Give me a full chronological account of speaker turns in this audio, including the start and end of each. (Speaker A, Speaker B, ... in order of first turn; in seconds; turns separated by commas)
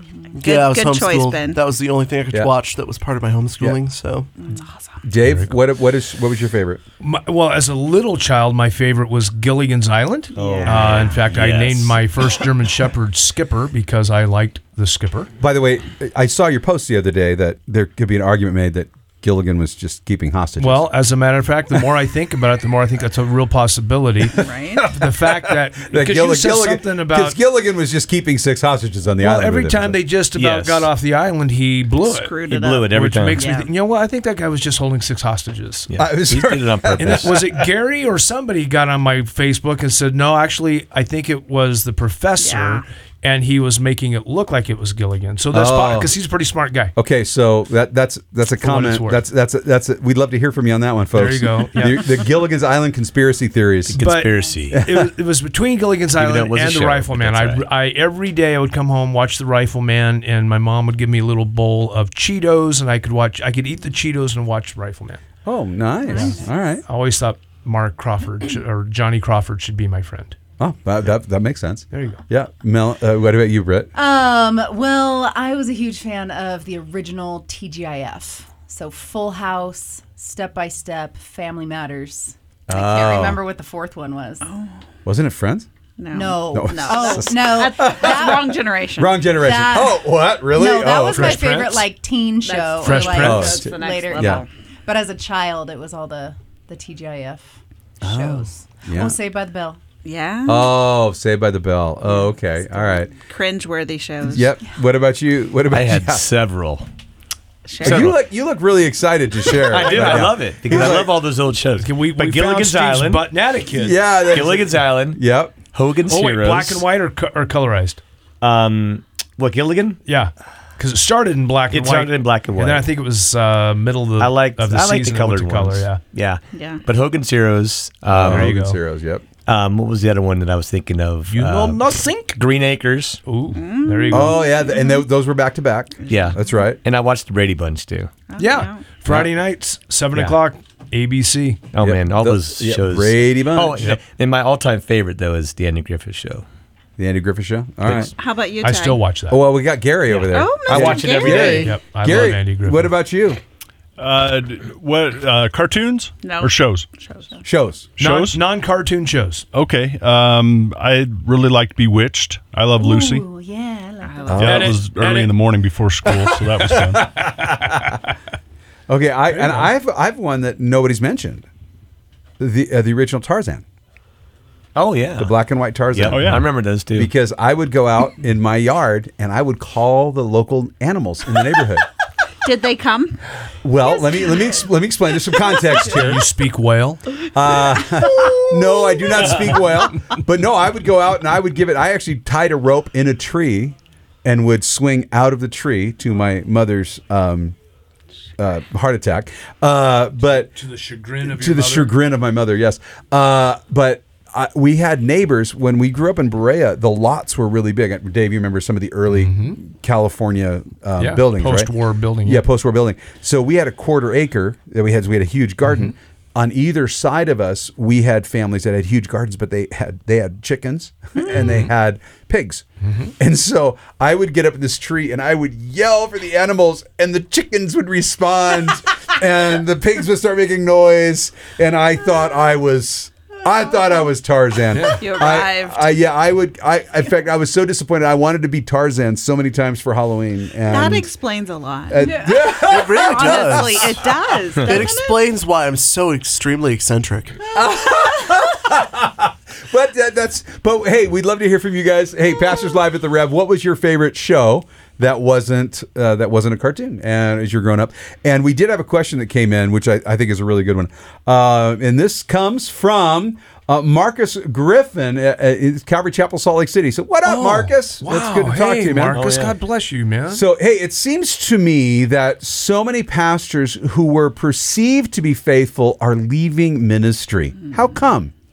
Speaker A: 0.3-1.6, Speaker B: 0.3-4.3, Speaker A: 4.4-5.0, Speaker C: 5.0-6.8, Speaker D: 5.2-5.5, Speaker D: 7.0-15.3, Speaker A: 10.3-11.2, Speaker E: 10.3-12.0, Speaker C: 15.4-20.9, Speaker D: 20.6-27.4, Speaker C: 24.3-30.0, Speaker A: 24.4-24.9, Speaker D: 29.2-35.9, Speaker E: 30.3-30.9, Speaker A: 32.0-33.7, Speaker E: 32.5-33.5, Speaker E: 35.9-37.4, Speaker C: 36.0-37.6, Speaker D: 37.0-46.9, Speaker A: 42.4-42.8, Speaker C: 45.5-46.1, Speaker C: 47.0-54.0, Speaker D: 48.6-49.2, Speaker D: 51.1-52.2, Speaker E: 53.9-54.8, Speaker D: 54.0-65.2, Speaker C: 54.7-55.1, Speaker E: 56.2-57.6, Speaker C: 65.4-66.8, Speaker F: 66.0-66.5, Speaker D: 66.8-70.3, Speaker C: 70.6-73.9, Speaker D: 71.9-72.2, Speaker F: 73.9-84.5, Speaker C: 82.7-83.4, Speaker A: 84.4-84.8, Speaker C: 85.0-85.7, Speaker A: 86.0-89.2, Speaker F: 86.1-88.6, Speaker C: 86.5-91.5, Speaker F: 89.4-99.8, Speaker D: 91.1-91.8, Speaker A: 92.4-94.5, Speaker D: 92.8-93.6, Speaker C: 93.1-94.4, Speaker C: 98.0-99.2, Speaker A: 100.0-100.7, Speaker C: 100.5-103.1, Speaker A: 103.2-104.5, Speaker C: 104.2-106.2, Speaker E: 105.7-106.9, Speaker A: 107.7-108.1, Speaker E: 107.8-108.2, Speaker C: 107.8-111.2, Speaker E: 109.6-113.2, Speaker D: 109.8-110.9, Speaker D: 111.8-114.3, Speaker C: 113.7-115.5, Speaker E: 114.3-115.2, Speaker E: 115.7-116.8, Speaker D: 116.1-118.0, Speaker E: 118.4-120.0, Speaker D: 120.0-126.0, Speaker E: 121.7-122.9, Speaker E: 124.2-128.6, Speaker A: 126.5-126.8, Speaker C: 128.1-129.2, Speaker D: 128.2-128.8, Speaker E: 129.4-133.2, Speaker D: 131.3-132.4, Speaker D: 133.2-134.4, Speaker A: 133.5-135.0, Speaker C: 134.1-136.8, Speaker A: 136.1-136.4, Speaker E: 136.1-138.1, Speaker A: 138.3-138.9, Speaker D: 138.4-141.7, Speaker E: 141.7-146.4, Speaker C: 141.8-143.9, Speaker C: 147.0-148.1, Speaker A: 148.2-149.0, Speaker D: 148.6-149.4, Speaker C: 149.3-153.4, Speaker E: 150.1-151.7, Speaker A: 150.2-151.8, Speaker D: 151.1-152.9, Speaker G: 154.0-156.9, Speaker A: 156.2-157.4, Speaker C: 157.4-157.9, Speaker G: 158.0-158.4, Speaker D: 158.0-159.5, Speaker G: 159.5-163.3, Speaker F: 162.8-164.7, Speaker A: 164.0-164.7, Speaker G: 164.3-167.1, Speaker D: 164.3-165.3, Speaker C: 166.1-168.0, Speaker C: 168.9-171.4, Speaker D: 169.3-169.7, Speaker C: 172.4-173.6, Speaker E: 174.7-175.4, Speaker C: 175.2-181.8, Speaker E: 175.9-177.1, Speaker G: 176.1-176.5, Speaker A: 182.4-183.2, Speaker C: 183.6-186.2, Speaker D: 185.8-187.0, Speaker C: 187.3-197.6, Speaker C: 198.4-200.6, Speaker D: 200.3-201.9, Speaker C: 201.2-211.7, Speaker D: 209.1-209.6, Speaker D: 211.0-212.5, Speaker C: 212.2-222.7, Speaker D: 215.7-215.9, Speaker D: 222.8-223.1, Speaker C: 223.2-241.1, Speaker A: 234.9-235.9, Speaker A: 240.7-245.3, Speaker C: 241.9-244.1, Speaker F: 242.0-242.5, Speaker B: 242.6-244.0, Speaker B: 244.6-247.5, Speaker C: 247.5-269.2, Speaker D: 267.2-270.4, Speaker E: 269.1-269.6, Speaker C: 270.3-278.3